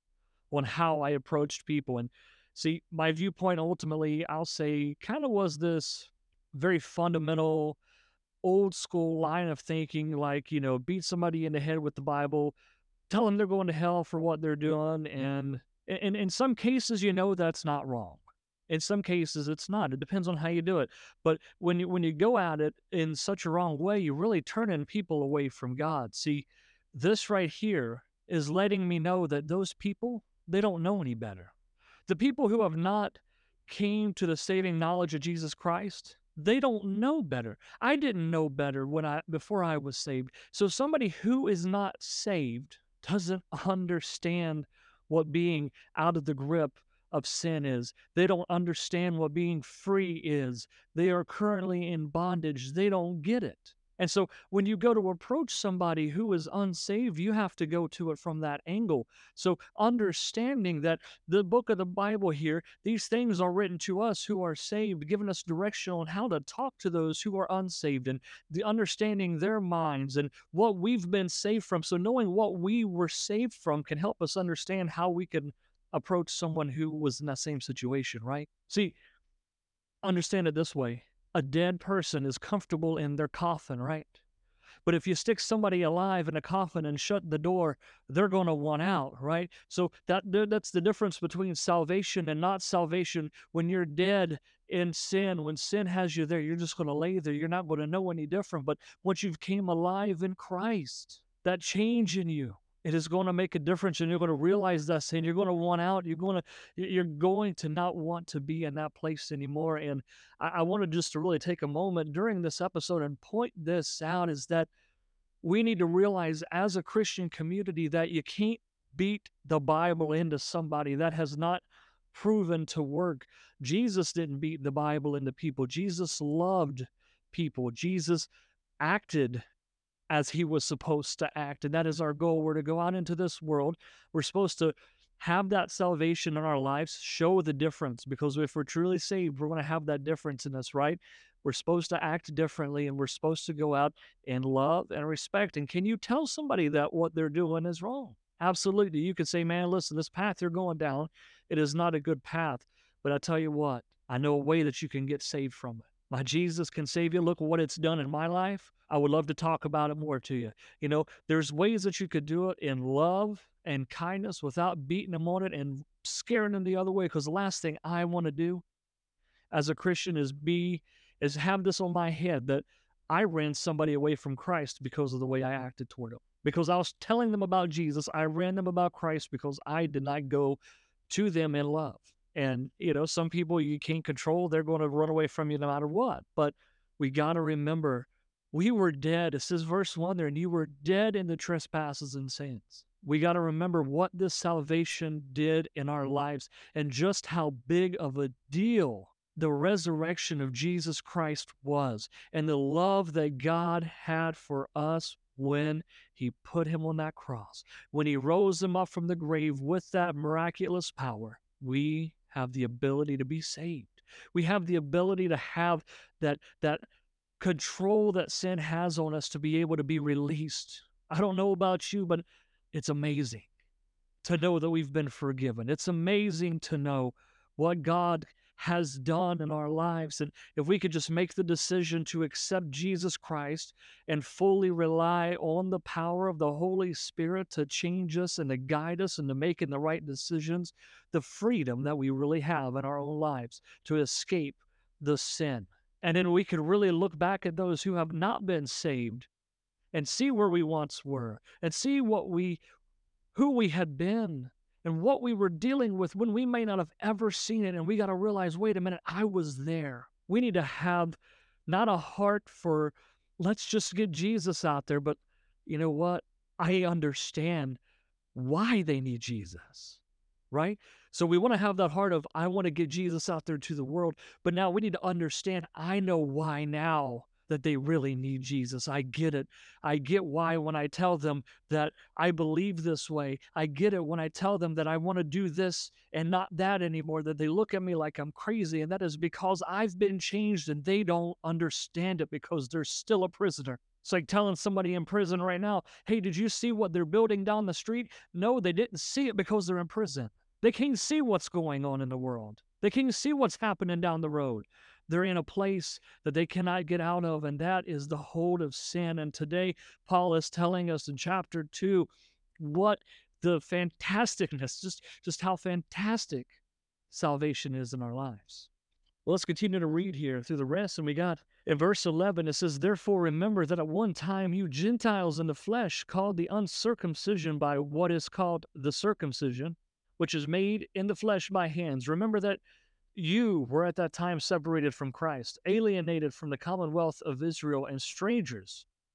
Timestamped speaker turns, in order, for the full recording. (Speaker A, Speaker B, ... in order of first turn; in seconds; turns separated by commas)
Speaker A: 0.5-7.8, Speaker A: 8.4-12.6, Speaker A: 13.1-31.5, Speaker A: 32.1-79.0, Speaker A: 80.0-84.2, Speaker A: 84.8-114.7, Speaker A: 115.4-128.3, Speaker A: 128.8-129.4, Speaker A: 130.1-168.6, Speaker A: 169.5-216.8, Speaker A: 217.4-223.5, Speaker A: 224.2-249.3, Speaker A: 249.9-252.6, Speaker A: 253.3-267.8, Speaker A: 268.3-312.1, Speaker A: 312.6-316.6, Speaker A: 317.1-318.7, Speaker A: 319.2-332.6, Speaker A: 333.1-338.9